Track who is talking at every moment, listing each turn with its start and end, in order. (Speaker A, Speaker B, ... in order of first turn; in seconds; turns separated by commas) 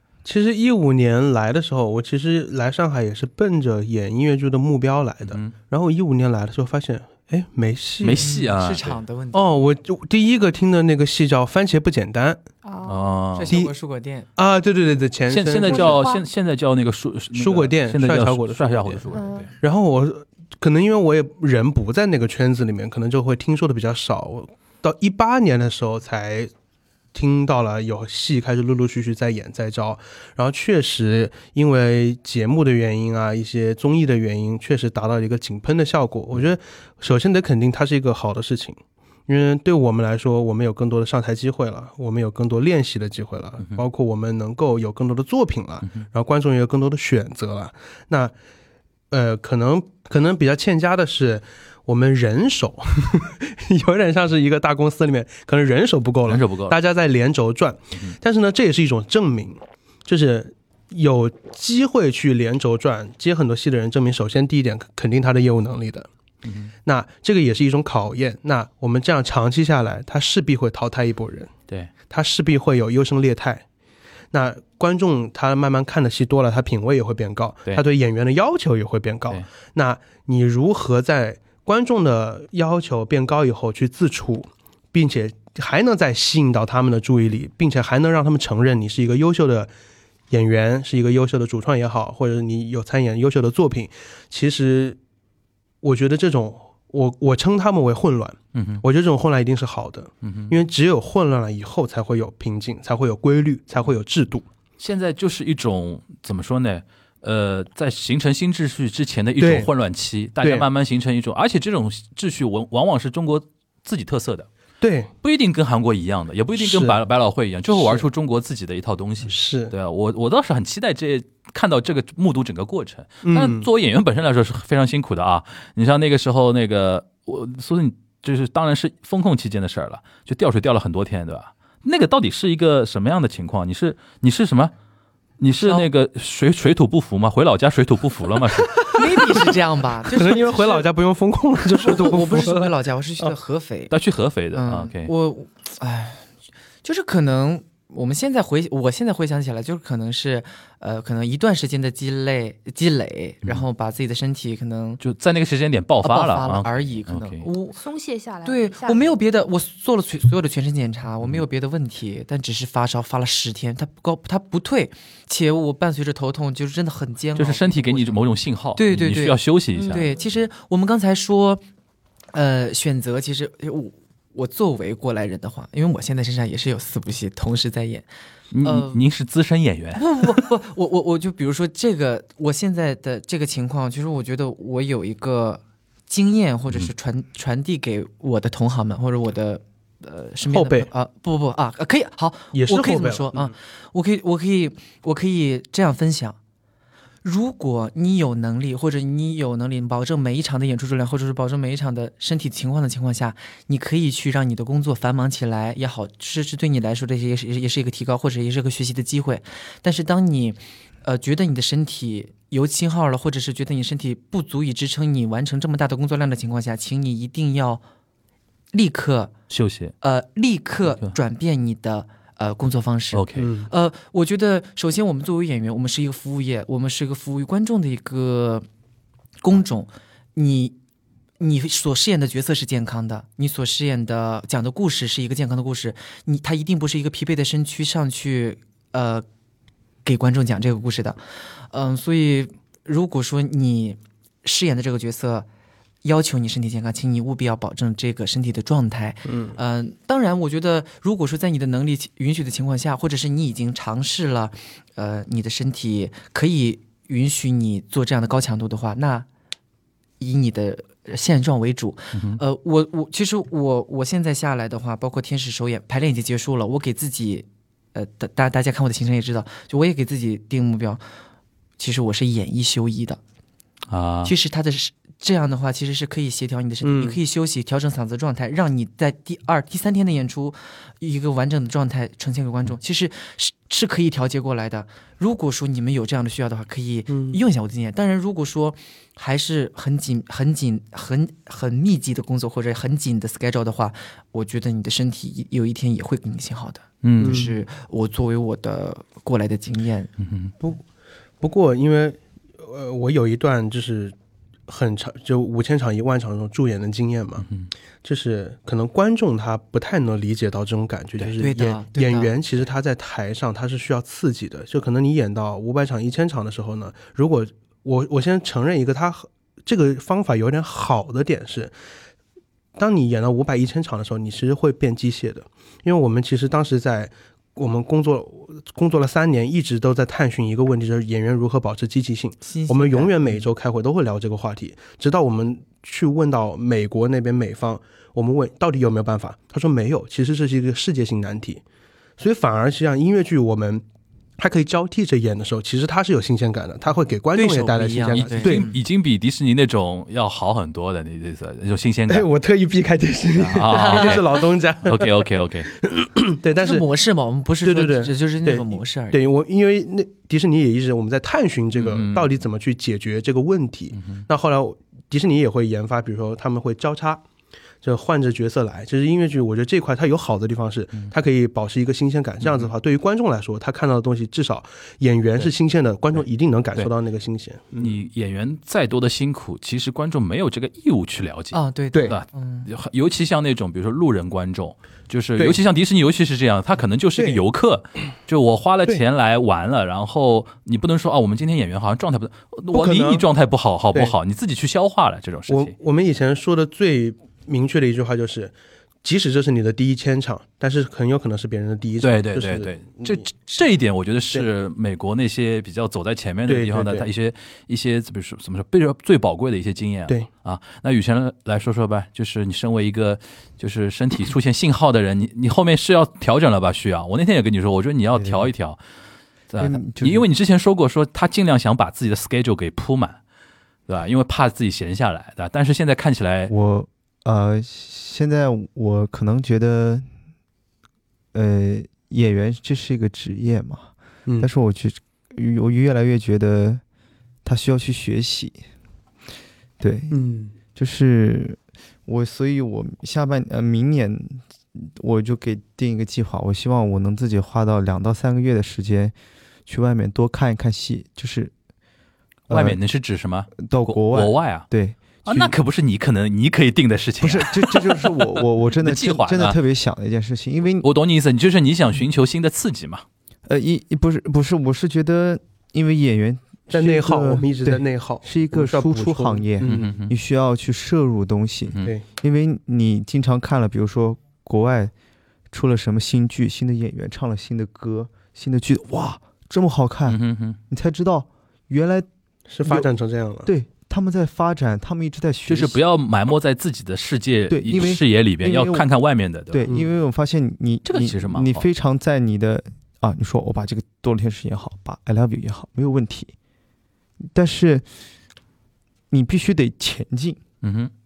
Speaker A: 0.2-8.3, Speaker B: 5.3-5.5, Speaker B: 8.0-9.0, Speaker C: 8.2-9.5, Speaker A: 9.3-12.4, Speaker D: 12.6-13.1, Speaker B: 12.8-13.5, Speaker C: 13.3-14.3, Speaker A: 14.4-16.0, Speaker B: 15.3-19.5, Speaker D: 15.7-16.2, Speaker A: 17.3-19.1, Speaker D: 19.1-19.5, Speaker A: 19.6-26.5, Speaker A: 27.1-48.3, Speaker A: 49.1-66.1, Speaker B: 56.3-56.8, Speaker B: 66.4-66.7, Speaker A: 66.8-71.5, Speaker A: 72.1-73.6, Speaker A: 74.3-89.7, Speaker A: 90.3-95.0, Speaker A: 95.8-104.5, Speaker B: 98.5-98.8, Speaker B: 100.2-100.5, Speaker B: 104.8-114.5, Speaker A: 109.4-109.7, Speaker A: 114.8-115.1, Speaker B: 115.2-134.7, Speaker A: 116.6-117.0, Speaker A: 117.7-118.1, Speaker A: 119.2-119.7, Speaker A: 123.2-123.7, Speaker B: 135.4-138.9, Speaker A: 138.7-139.0, Speaker C: 138.9-140.8, Speaker A: 140.1-143.3, Speaker C: 141.7-143.9, Speaker B: 143.9-145.1, Speaker C: 144.5-146.3, Speaker C: 146.8-155.0, Speaker B: 155.0-157.5, Speaker C: 156.0-157.8, Speaker D: 157.7-159.1, Speaker C: 158.4-168.2, Speaker B: 167.3-170.1, Speaker C: 168.7-171.6, Speaker D: 169.7-170.2, Speaker C: 172.3-178.1, Speaker B: 178.5-180.4, Speaker C: 178.6-179.0, Speaker C: 179.9-196.4, Speaker A: 190.5-190.9, Speaker A: 192.5-193.5, Speaker C: 197.2-217.8, Speaker C: 218.7-219.3, Speaker B: 219.5-219.9, Speaker C: 220.0-228.7, Speaker B: 223.1-223.5, Speaker A: 223.3-223.7, Speaker C: 229.4-230.8, Speaker C: 231.4-239.2, Speaker C: 240.0-245.5, Speaker C: 246.0-259.3, Speaker A: 249.2-249.6, Speaker C: 260.2-271.0, Speaker B: 262.1-262.4, Speaker C: 271.8-273.2, Speaker B: 273.9-274.3, Speaker C: 274.2-300.1, Speaker A: 276.8-277.2, Speaker A: 287.1-287.4, Speaker B: 297.0-297.4, Speaker A: 297.2-297.5, Speaker B: 300.2-300.5, Speaker A: 301.4-304.1, Speaker A: 304.7-307.5, Speaker A: 308.0-321.7, Speaker C: 311.4-312.3, Speaker A: 322.8-341.6, Speaker C: 332.4-333.5, Speaker A: 342.2-343.8, Speaker A: 344.4-348.7, Speaker C: 347.3-348.7, Speaker B: 348.2-352.3, Speaker A: 352.1-355.3, Speaker B: 353.4-354.3, Speaker B: 354.8-355.7, Speaker A: 355.8-356.8, Speaker C: 356.6-359.2, Speaker A: 357.6-367.2, Speaker B: 361.8-362.3, Speaker B: 364.0-364.2, Speaker A: 367.8-377.9, Speaker B: 377.8-395.7, Speaker C: 381.5-382.7, Speaker A: 392.7-393.2, Speaker A: 395.5-403.2, Speaker B: 402.0-418.8, Speaker A: 406.5-407.1, Speaker E: 418.1-418.5, Speaker B: 419.5-423.2, Speaker E: 419.6-420.2, Speaker B: 423.9-426.5, Speaker E: 426.5-430.1, Speaker E: 431.3-436.8, Speaker E: 437.4-438.6, Speaker E: 439.8-449.1, Speaker A: 440.1-440.5, Speaker E: 449.7-451.5, Speaker E: 452.5-452.8, Speaker B: 452.5-454.7, Speaker E: 453.6-455.5, Speaker B: 455.2-459.6, Speaker E: 457.2-460.9, Speaker B: 460.8-463.0, Speaker E: 463.4-474.9, Speaker A: 466.7-469.9, Speaker B: 469.6-470.1, Speaker E: 475.5-480.2, Speaker B: 480.1-480.6, Speaker E: 480.7-482.1, Speaker A: 482.5-483.5, Speaker E: 483.4-485.8, Speaker B: 485.5-489.8, Speaker E: 487.5-488.9, Speaker E: 489.5-496.3, Speaker B: 490.9-491.7, Speaker E: 497.3-497.9, Speaker E: 499.1-500.4, Speaker B: 500.6-500.9